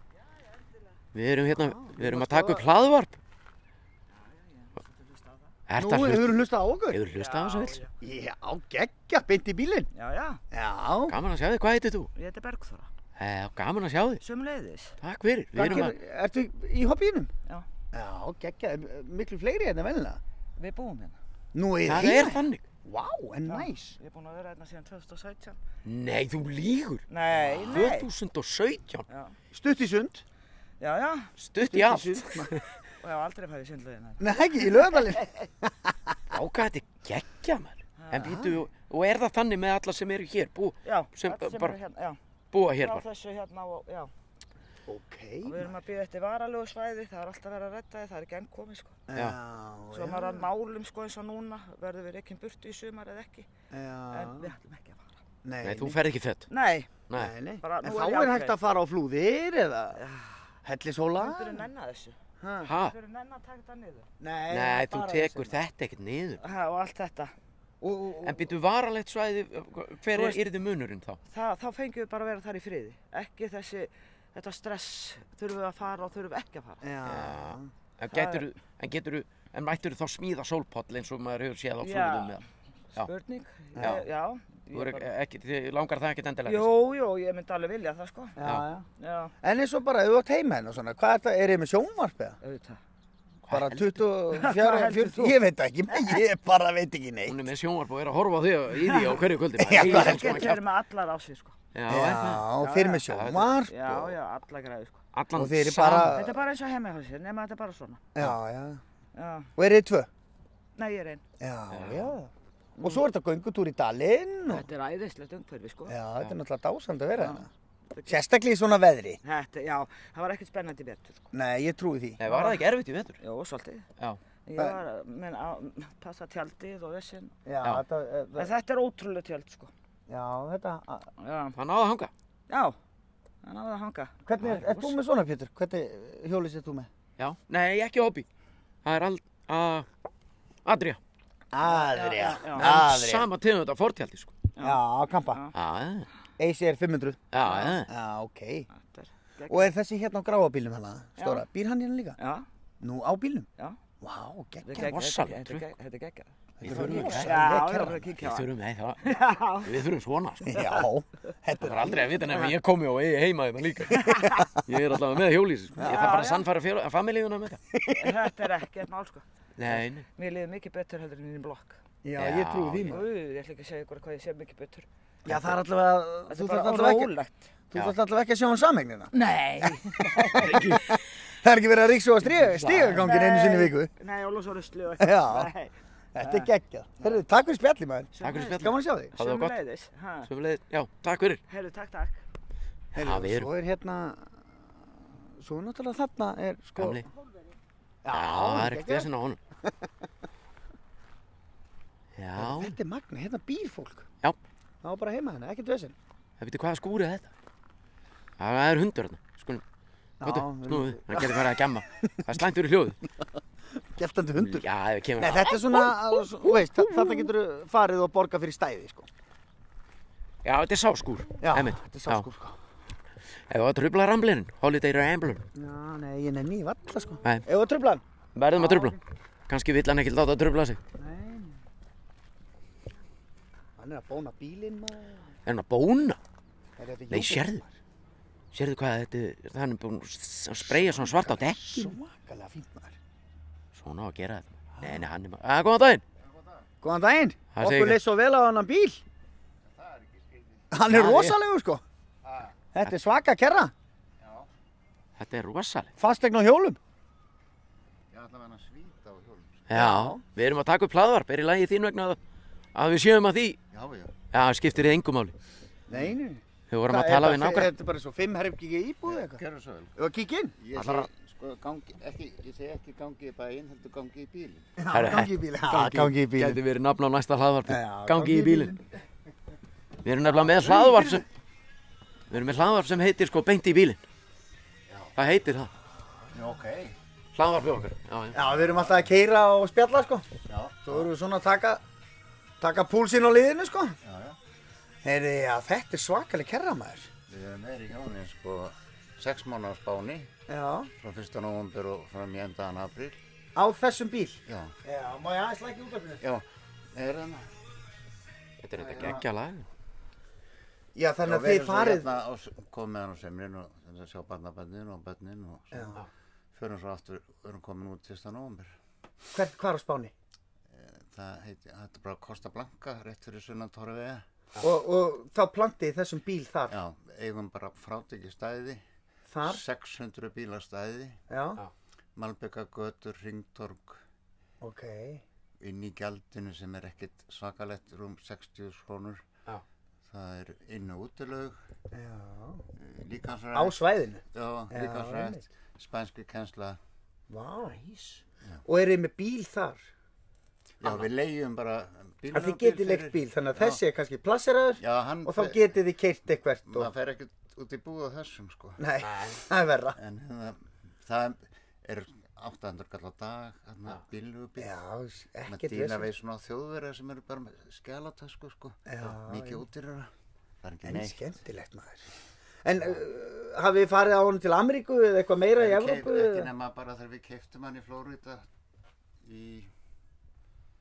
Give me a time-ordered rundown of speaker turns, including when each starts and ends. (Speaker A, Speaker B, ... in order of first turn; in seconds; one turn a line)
Speaker A: 0.2-0.9
Speaker B: 1.1-3.2
Speaker C: 1.5-2.7
Speaker A: 4.1-5.5
Speaker B: 5.7-7.8
Speaker C: 5.8-7.0
Speaker A: 7.1-7.9
Speaker C: 8.0-9.9
Speaker A: 9.9-10.4
Speaker C: 10.5-11.2
Speaker B: 11.1-12.1
Speaker A: 12.2-12.9
Speaker B: 13.2-14.2
Speaker A: 14.2-15.0
Speaker B: 15.0-15.9
Speaker C: 15.5-17.3
Speaker C: 17.9-20.2
Speaker A: 20.6-21.2
Speaker C: 21.5-23.9
Speaker B: 21.9-22.6
Speaker A: 23.5-25.6
Speaker B: 25.8-29.1
Speaker A: 27.1-28.1
Speaker C: 27.4-27.7
Speaker A: 29.1-29.3
Speaker C: 29.5-30.2
Speaker A: 30.8-31.3
Speaker B: 31.4-32.6
Speaker C: 31.7-32.5
Speaker A: 33.0-35.2
Speaker C: 34.2-36.1
Speaker B: 36.3-41.8
Speaker A: 38.0-38.4
Speaker C: 38.1-38.6
Speaker A: 40.8-42.2
Speaker B: 42.5-43.0
Speaker A: 42.8-44.1
Speaker C: 44.9-45.8
Speaker A: 45.4-49.0
Speaker C: 49.1-50.5
Speaker A: 49.9-53.5
Speaker C: 53.7-54.5
Speaker A: 54.1-55.2
Speaker C: 55.4-56.0
Speaker B: 55.6-56.5
Speaker A: 56.5-57.0
Speaker B: 57.1-57.3
Speaker C: 57.1-60.0
Speaker A: 57.6-58.5
Speaker A: 59.9-60.5
Speaker C: 60.6-61.6
Speaker A: 61.2-62.1
Speaker C: 62.4-62.7
Speaker B: 62.6-63.0
Speaker A: 62.7-64.1
Speaker C: 64.2-65.6
Speaker B: 64.5-66.5
Speaker A: 66.4-67.3
Speaker C: 67.8-68.5
Speaker B: 68.2-71.2
Speaker A: 70.1-70.4
Speaker A: 71.3-76.8
Speaker C: 76.8-77.7
Speaker B: 77.0-82.4
Speaker A: 78.1-78.4
Speaker A: 81.8-82.4
Speaker A: 83.0-85.1
Speaker B: 83.8-84.0
Speaker B: 84.7-86.7
Speaker A: 86.4-88.4
Speaker C: 88.4-88.9
Speaker A: 89.0-89.3
Speaker C: 89.4-92.4
Speaker A: 92.4-92.8
Speaker B: 93.4-94.0
Speaker C: 93.5-97.4
Speaker A: 94.4-95.3
Speaker A: 95.9-96.2
Speaker B: 97.3-100.6
Speaker A: 98.8-99.2
Speaker C: 99.6-100.5
Speaker A: 99.7-101.5
Speaker B: 101.7-102.5
Speaker C: 101.9-103.7
Speaker A: 102.6-105.0
Speaker B: 103.1-104.2
Speaker B: 105.1-106.1
Speaker C: 105.3-106.4
Speaker A: 106.0-108.0
Speaker C: 108.1-108.8
Speaker A: 109.1-109.5
Speaker C: 109.6-110.1
Speaker A: 110.8-111.2
Speaker C: 111.4-114.7
Speaker B: 111.7-112.2
Speaker A: 114.5-116.0
Speaker C: 115.9-117.5
Speaker A: 117.2-118.2
Speaker C: 118.0-119.2
Speaker A: 119.2-121.3
Speaker C: 121.3-122.2
Speaker B: 122.2-123.2
Speaker A: 122.2-122.6
Speaker A: 123.2-123.9
Speaker A: 124.4-127.3
Speaker C: 124.5-124.8
Speaker C: 127.5-128.5
Speaker A: 128.3-129.7
Speaker C: 130.1-131.1
Speaker A: 131.2-131.6
Speaker B: 131.5-132.1
Speaker A: 132.5-132.8
Speaker A: 133.4-134.8
Speaker C: 134.2-136.9
Speaker B: 134.4-134.9
Speaker B: 137.2-138.3
Speaker B: 138.8-139.9
Speaker B: 140.6-141.0
Speaker C: 141.5-143.3
Speaker A: 141.6-142.7
Speaker B: 142.5-144.3
Speaker A: 144.6-145.5
Speaker C: 144.6-145.4
Speaker B: 145.5-146.1
Speaker C: 146.4-148.7
Speaker B: 147.3-147.9
Speaker A: 147.4-147.7
Speaker A: 148.7-149.7
Speaker C: 149.5-152.2
Speaker A: 151.2-151.4
Speaker A: 152.2-152.4
Speaker C: 152.8-153.5
Speaker C: 154.0-154.9
Speaker A: 154.6-158.5
Speaker B: 154.8-155.7
Speaker C: 156.6-158.0
Speaker B: 156.6-157.4
Speaker B: 158.2-160.7
Speaker A: 159.0-159.8
Speaker C: 160.4-162.3
Speaker B: 161.6-167.6
Speaker A: 163.9-164.5
Speaker C: 163.9-164.5
Speaker C: 165.8-166.1
Speaker A: 165.8-166.5
Speaker C: 167.7-168.3
Speaker A: 167.9-171.8
Speaker B: 169.6-170.1
Speaker C: 172.0-173.1
Speaker B: 172.2-173.0
Speaker A: 172.9-174.9
Speaker C: 175.2-177.1
Speaker B: 175.3-175.5
Speaker A: 176.3-177.5
Speaker C: 177.7-183.9
Speaker A: 179.1-180.6
Speaker B: 180.3-181.0
Speaker B: 182.2-183.1
Speaker A: 182.7-186.5
Speaker C: 185.0-185.5
Speaker C: 186.1-189.1
Speaker A: 188.1-190.3
Speaker B: 188.2-189.6
Speaker B: 190.2-191.4
Speaker A: 191.5-192.2
Speaker B: 192.9-193.5
Speaker C: 192.9-194.6
Speaker C: 195.3-197.0
Speaker B: 196.7-197.1
Speaker C: 198.0-199.1
Speaker B: 198.1-199.4
Speaker B: 202.2-202.8
Speaker C: 202.4-204.1
Speaker C: 204.8-205.9
Speaker B: 206.4-207.3
Speaker B: 208.4-209.6
Speaker C: 210.2-212.3
Speaker B: 210.2-213.0
Speaker C: 213.8-214.7
Speaker B: 214.3-215.8
Speaker C: 215.2-219.1
Speaker B: 220.4-222.3
Speaker C: 221.4-222.6
Speaker B: 223.5-225.4
Speaker C: 225.5-229.0
Speaker B: 228.3-229.0
Speaker B: 229.5-230.8
Speaker C: 231.0-231.6
Speaker C: 233.8-235.3
Speaker B: 235.4-236.2
Speaker C: 236.8-237.8
Speaker B: 237.1-237.6
Speaker B: 238.5-241.9
Speaker C: 240.6-243.0
Speaker B: 243.7-246.0
Speaker C: 244.8-245.1
Speaker D: 246.2-246.7
Speaker C: 246.8-249.0
Speaker B: 247.5-248.0
Speaker D: 249.6-250.7
Speaker C: 250.7-251.8
Speaker B: 250.9-251.4
Speaker D: 252.2-252.6
Speaker C: 252.7-253.7
Speaker D: 254.2-254.5
Speaker B: 255.2-255.9
Speaker C: 256.0-256.8
Speaker D: 258.1-259.6
Speaker B: 259.7-262.2
Speaker C: 259.7-260.2
Speaker B: 262.7-263.6
Speaker D: 263.7-264.1
Speaker B: 264.3-265.3
Speaker C: 265.9-269.4
Speaker B: 266.7-267.7
Speaker D: 269.1-269.9
Speaker C: 269.9-270.9
Speaker D: 270.6-274.7
Speaker C: 274.8-276.6
Speaker B: 274.9-278.7
Speaker C: 277.7-278.8
Speaker B: 280.0-281.2
Speaker C: 280.6-281.2
Speaker B: 282.3-284.0
Speaker D: 284.9-285.1
Speaker B: 285.1-285.7
Speaker D: 286.3-286.9
Speaker B: 287.3-288.4
Speaker D: 288.3-289.1
Speaker C: 288.3-290.3
Speaker D: 290.5-291.1
Speaker C: 290.8-291.8
Speaker C: 292.6-293.9
Speaker D: 294.0-294.4
Speaker C: 295.0-297.1
Speaker D: 297.3-300.3
Speaker C: 300.5-300.9
Speaker D: 301.0-303.2
Speaker C: 303.5-306.2
Speaker D: 304.5-304.7
Speaker D: 306.2-307.5
Speaker B: 308.6-309.6
Speaker D: 308.8-309.2
Speaker C: 310.9-312.1
Speaker D: 311.2-318.7
Speaker C: 315.7-316.0
Speaker C: 319.3-320.1
Speaker D: 320.7-324.2
Speaker C: 324.6-326.8
Speaker D: 326.7-328.8
Speaker C: 329.3-329.6
Speaker D: 329.4-331.2
Speaker C: 331.3-331.6
Speaker D: 332.1-334.0
Speaker C: 334.6-335.2
Speaker D: 335.6-339.2
Speaker D: 340.1-341.6
Speaker C: 341.9-342.6
Speaker D: 342.8-343.8
Speaker C: 343.5-345.4
Speaker D: 344.3-346.8
Speaker C: 347.3-347.8
Speaker B: 347.9-348.2
Speaker C: 348.6-349.9
Speaker D: 350.8-353.8
Speaker C: 352.3-356.9
Speaker D: 354.8-355.7
Speaker D: 356.7-358.8
Speaker C: 358.8-360.0
Speaker B: 359.0-359.4
Speaker D: 359.9-364.7
Speaker C: 364.6-366.1
Speaker D: 365.4-370.1
Speaker C: 368.9-369.6
Speaker D: 370.6-371.2
Speaker C: 370.8-372.1
Speaker C: 372.6-376.5
Speaker D: 375.6-378.4
Speaker D: 379.2-379.7